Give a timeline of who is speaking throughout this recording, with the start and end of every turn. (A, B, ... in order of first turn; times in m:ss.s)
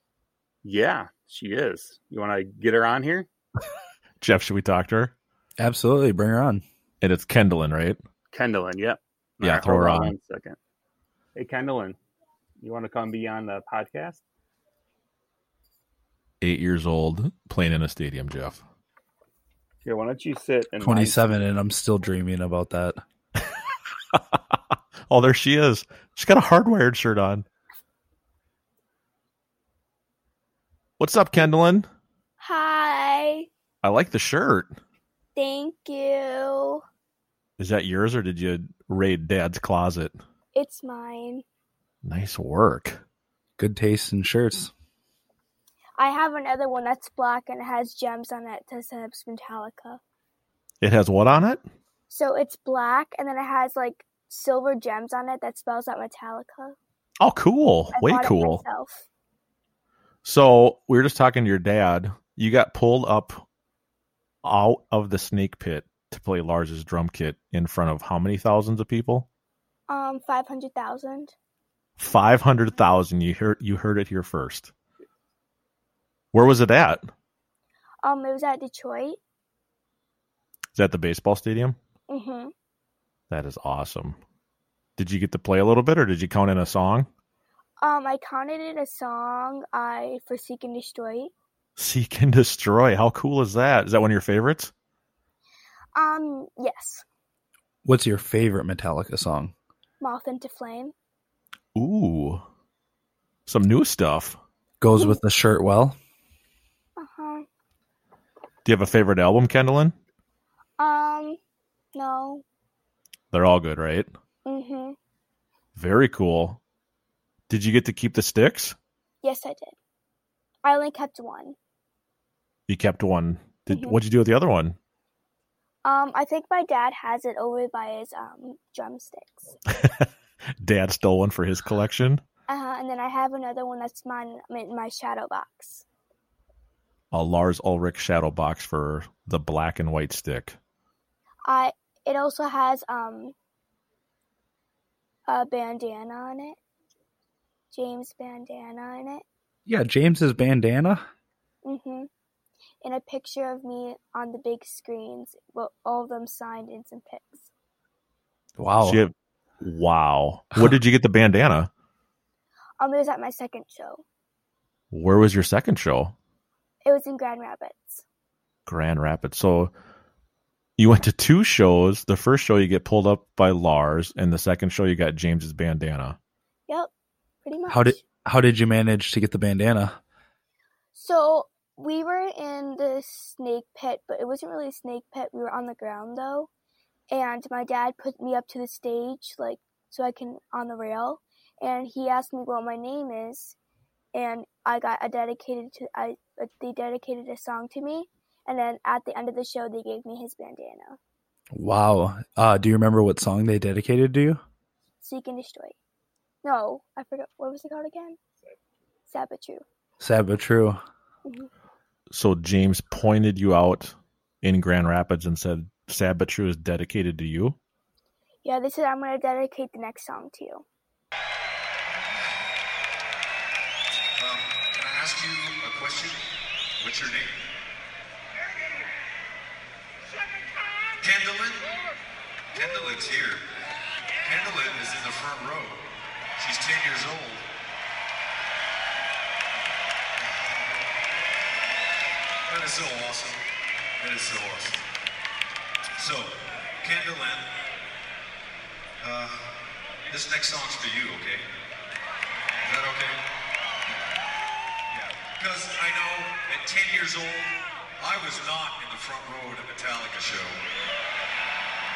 0:00.6-0:03.3 A
0:04.2-0:05.1 B
0:05.6-0:06.6 C
0:07.0-0:08.0 B
0:08.3-0:10.6 A
0:09.4-0:10.1 B
0:11.4-0:12.0 A
0:12.6-0:14.2 A
0:16.4-0:18.6 B
0:19.8-0:21.3 A
0:20.8-0:23.0 C
0:24.1-0:24.6 B
0:25.1-0:27.4 B
0:31.0-0:31.9 B
0:32.4-0:33.5 D
0:33.8-0:34.7 B
0:35.4-0:36.8 D
0:37.6-0:40.2 B
0:40.6-0:41.4 D
0:42.0-0:43.0 B
0:43.6-0:44.7 C
0:46.0-0:50.0 D
0:50.8-0:51.6 B
0:52.1-0:56.8 D
0:57.2-0:58.6 B
0:57.9-0:59.0 D
1:00.2-1:03.4 B
1:04.4-1:09.3 B
1:09.9-1:11.3 D
1:12.0-1:14.7 B
1:16.3-1:17.1 B
1:18.0-1:19.2 D
1:20.7-1:21.8 B
1:22.1-1:22.5 D
1:23.3-1:24.2 B
1:25.0-1:27.1 B
1:27.8-1:31.3 D
1:31.8-1:34.7 B
1:36.0-1:37.0 D
1:37.8-1:39.5 C
1:40.0-1:40.9 D
1:41.8-1:42.4 B
1:43.5-1:44.4 B
1:44.8-1:46.0 C
1:47.0-1:47.5 D
1:48.6-1:49.9 B
1:50.8-1:51.4 D
1:51.9-1:52.4 D
1:53.3-1:54.1 B
1:54.5-1:55.0 D
1:55.8-1:56.6 B
1:57.5-1:58.8 B
1:59.2-1:59.8 D
2:00.6-2:01.6 D
2:02.7-2:04.8 B
2:03.7-2:04.0 D
2:05.8-2:09.6 D
2:09.7-2:10.1 B
2:10.6-2:12.2 B
2:12.5-2:15.8 D
2:17.1-2:20.6 B
2:21.5-2:23.4 D
2:25.3-2:26.6 D
2:27.7-2:29.2 D
2:29.7-2:31.0 C
2:31.6-2:32.1 D
2:32.8-2:37.5 D
2:38.6-2:39.0 C
2:38.8-2:41.7 B
2:42.8-2:44.0 D
2:44.9-2:46.2 B
2:46.8-2:48.0 D
2:48.7-2:49.7 B
2:50.8-2:56.2 B
2:57.4-2:58.0 D
2:57.7-3:00.0 C
3:00.9-3:06.5 D
3:07.1-3:13.6 D
3:14.1-3:21.0 D
3:21.5-3:24.4 C
3:25.0-3:25.8 D
3:26.4-3:28.2 D
3:29.1-3:29.6 D
3:30.0-3:30.8 C
3:31.2-3:31.5 D
3:32.1-3:37.6 B
3:38.4-3:40.6 D
3:41.9-3:42.3 E
3:44.2-3:46.2 E
3:46.8-3:47.4 E
3:51.0-3:51.6 E
3:52.5-3:53.4 E
3:54.2-3:55.8 E
3:56.4-3:57.4 E
4:00.2-4:00.8 E
4:02.5-4:03.4 E
4:04.0-4:04.8 E
4:06.0-4:07.5 E
4:09.0-4:09.5 E
4:10.1-4:11.4 E
4:12.6-4:13.2 E
4:14.9-4:20.6 E